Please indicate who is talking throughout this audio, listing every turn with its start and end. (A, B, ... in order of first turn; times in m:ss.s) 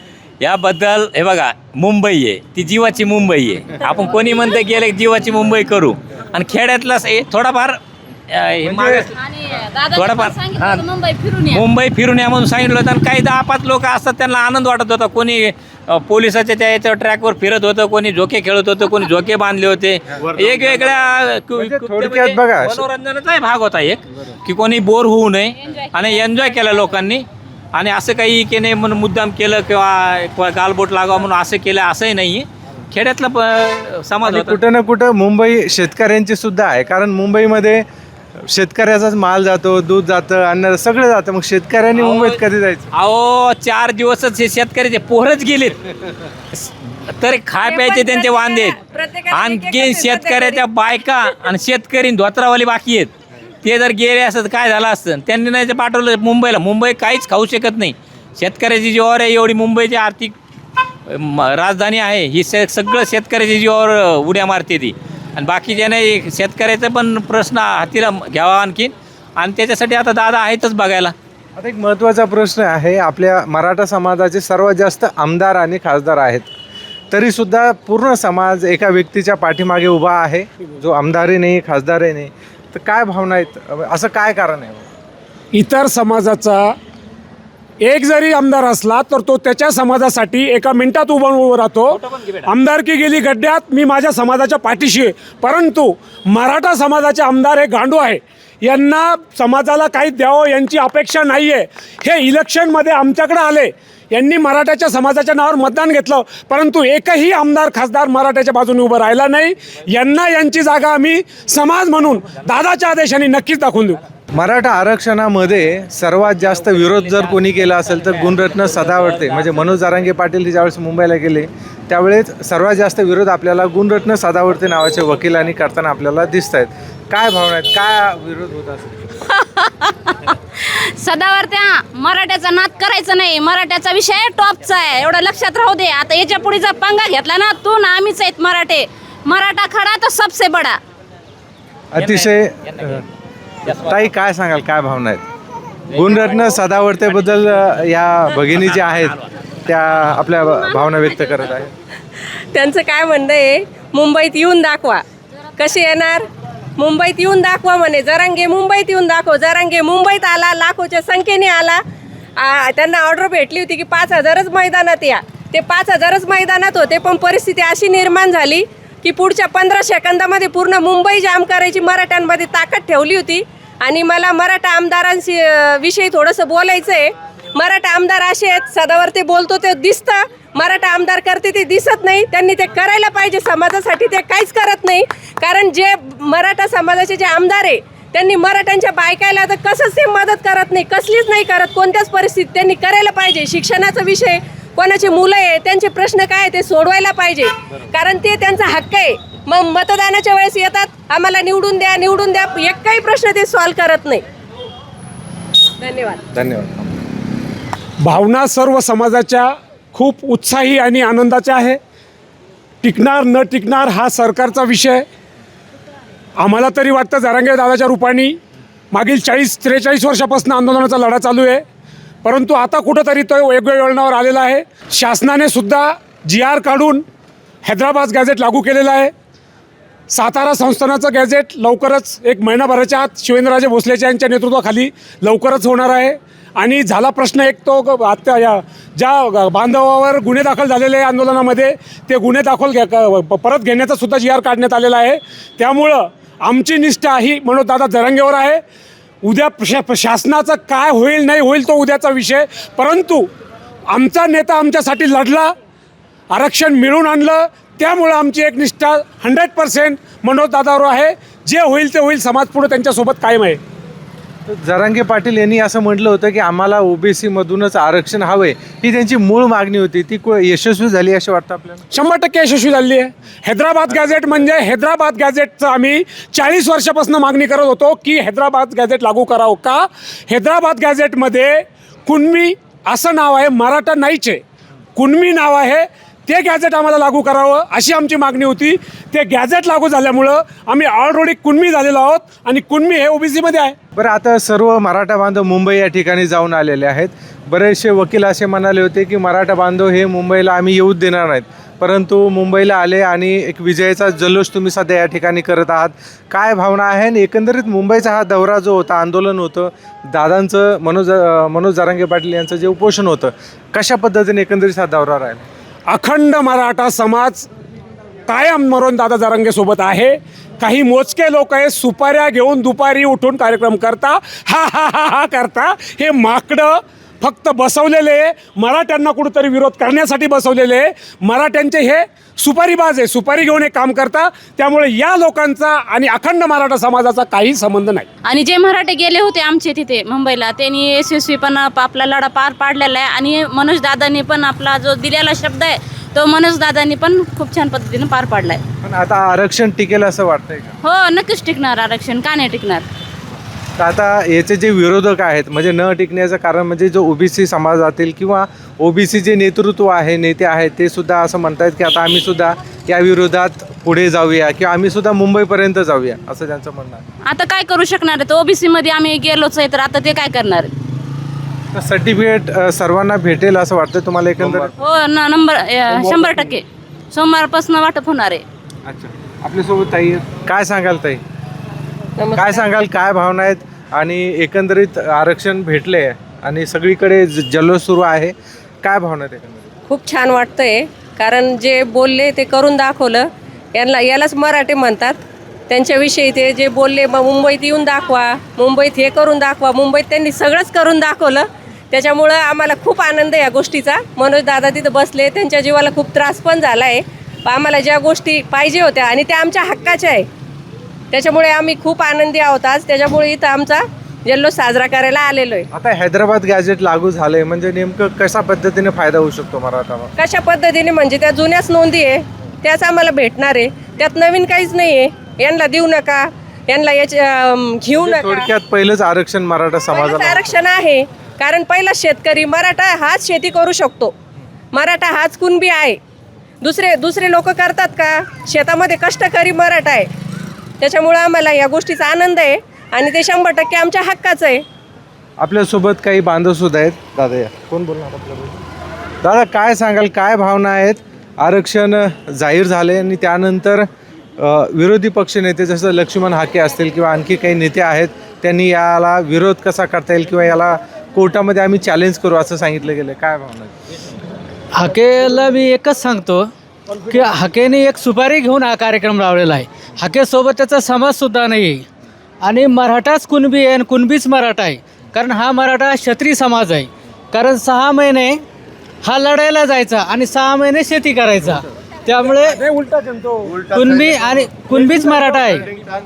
0:00.4-0:09.2 A
0:08.6-0:09.1 B
0:09.2-0:11.6 C
0:09.9-0:10.8 A
0:11.5-0:34.6 A
0:20.4-0:20.8 B
0:21.6-0:22.9 B
0:34.2-0:37.8 B
0:38.4-0:42.9 B
0:42.0-0:42.4 A
0:42.9-0:45.8 A
0:46.5-0:48.8 A
0:47.6-0:50.6 D
0:49.3-1:00.4 A
1:01.1-1:11.1 A
1:11.6-1:16.5 B
1:17.1-1:24.9 B
1:25.5-1:26.8 E
1:27.8-1:54.0 E
1:31.9-1:32.5 A
1:54.3-2:08.9 B
1:57.0-1:57.3 A
2:09.3-2:20.8 C
2:21.9-2:23.0 B
2:23.7-2:25.2 B
2:25.9-2:31.7 B
2:32.5-2:35.0 D
2:35.6-2:36.2 D
2:36.8-2:41.8 D
2:42.4-3:24.2 D
3:25.8-3:26.2 D
3:26.3-3:26.9 B
3:28.0-3:31.8 E
3:32.8-3:35.1 E
3:36.4-3:38.4 E
3:38.9-3:41.6 E
3:42.2-3:47.0 E
3:47.6-3:49.1 E
3:50.1-4:08.6 E
4:09.2-4:13.3 E
4:13.9-4:15.5 E
4:16.3-4:23.6 E
4:24.5-4:31.8 B
4:31.9-4:44.4 E
4:45.0-4:53.8 E
4:54.0-5:15.5 B
5:15.9-5:17.5 E
5:18.3-5:38.1 E
5:38.2-5:48.6 C
5:48.8-5:50.7 B
5:50.8-5:52.9 C
5:53.8-6:07.0 B
6:07.2-6:10.7 C
6:11.7-6:14.7 B
6:14.8-6:18.4 C
6:18.8-6:21.2 B
6:22.2-6:22.6 D
6:22.4-6:29.6 B
6:29.9-6:50.2 D
6:51.1-6:55.7 D
6:55.7-7:00.1 B
7:00.2-7:08.5 D
7:08.0-7:10.5 B
7:09.9-7:14.1 D
7:14.7-7:16.0 D
7:16.6-7:20.1 D
7:20.8-7:24.6 D
7:25.4-7:28.6 B
7:29.2-7:33.9 B
7:34.4-7:43.7 B
7:44.7-7:51.9 F
7:52.4-7:58.4 F
7:59.0-8:02.7 F
8:02.6-8:03.6 E
8:03.6-8:05.7 F